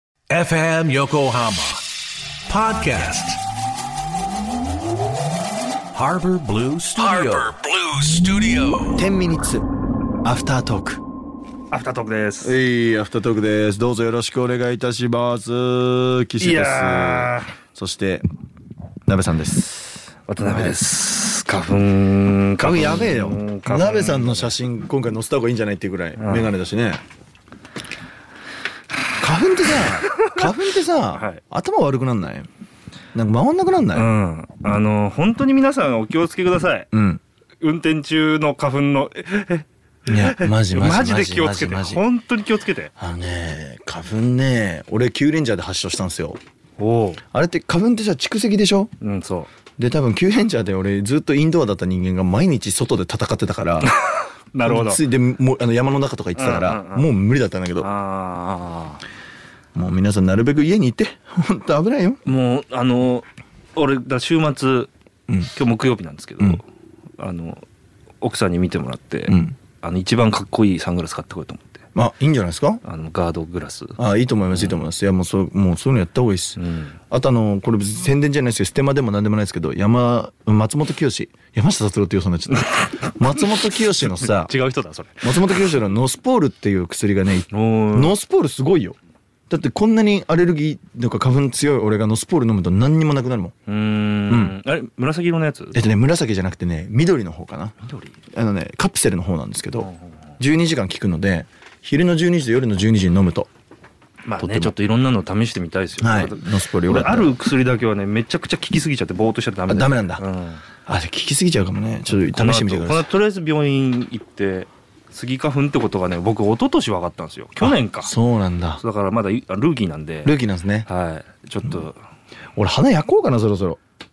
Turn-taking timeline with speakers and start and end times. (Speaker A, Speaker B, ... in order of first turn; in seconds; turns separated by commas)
Speaker A: 0.3-1.9, Speaker A: 2.5-3.4, Speaker A: 5.9-9.0, Speaker B: 8.9-9.7, Speaker B: 10.2-11.0, Speaker C: 11.7-12.6, Speaker B: 12.4-18.3, Speaker C: 16.4-17.5, Speaker B: 19.1-20.8, Speaker C: 20.3-24.5, Speaker B: 22.6-27.0, Speaker C: 26.2-26.5, Speaker B: 29.2-32.5, Speaker C: 30.1-30.4, Speaker C: 31.1-31.4, Speaker B: 33.1-34.1, Speaker C: 33.9-36.9, Speaker B: 36.9-37.2, Speaker C: 37.6-42.9, Speaker B: 40.1-42.0, Speaker B: 43.0-46.4, Speaker C: 46.8-47.2, Speaker B: 47.3-48.9, Speaker C: 49.0-49.5, Speaker B: 49.8-53.9, Speaker C: 53.8-55.0, Speaker B: 54.6-57.9, Speaker C: 56.4-57.1, Speaker C: 57.8-59.0, Speaker B: 59.8-62.2, Speaker C: 62.3-64.9, Speaker C: 65.5-66.6, Speaker C: 67.2-67.6, Speaker C: 68.2-71.8, Speaker B: 69.3-69.6, Speaker B: 72.0-72.8, Speaker C: 72.8-74.0, Speaker B: 74.0-84.5, Speaker C: 74.5-74.8, Speaker C: 76.6-77.0, Speaker C: 82.5-83.4, Speaker C: 84.1-85.3, Speaker B: 85.2-89.0, Speaker C: 87.5-88.2, Speaker B: 89.5-93.5, Speaker C: 93.7-95.8, Speaker B: 94.3-94.6, Speaker B: 95.7-97.8, Speaker C: 97.8-98.1, Speaker B: 98.3-103.5, Speaker C: 104.3-110.6, Speaker B: 104.4-104.7, Speaker B: 106.0-107.3, Speaker B: 109.7-110.2, Speaker B: 110.8-113.1, Speaker C: 112.2-118.1, Speaker B: 117.6-118.8, Speaker C: 118.8-122.0, Speaker B: 120.2-120.9, Speaker B: 122.6-123.8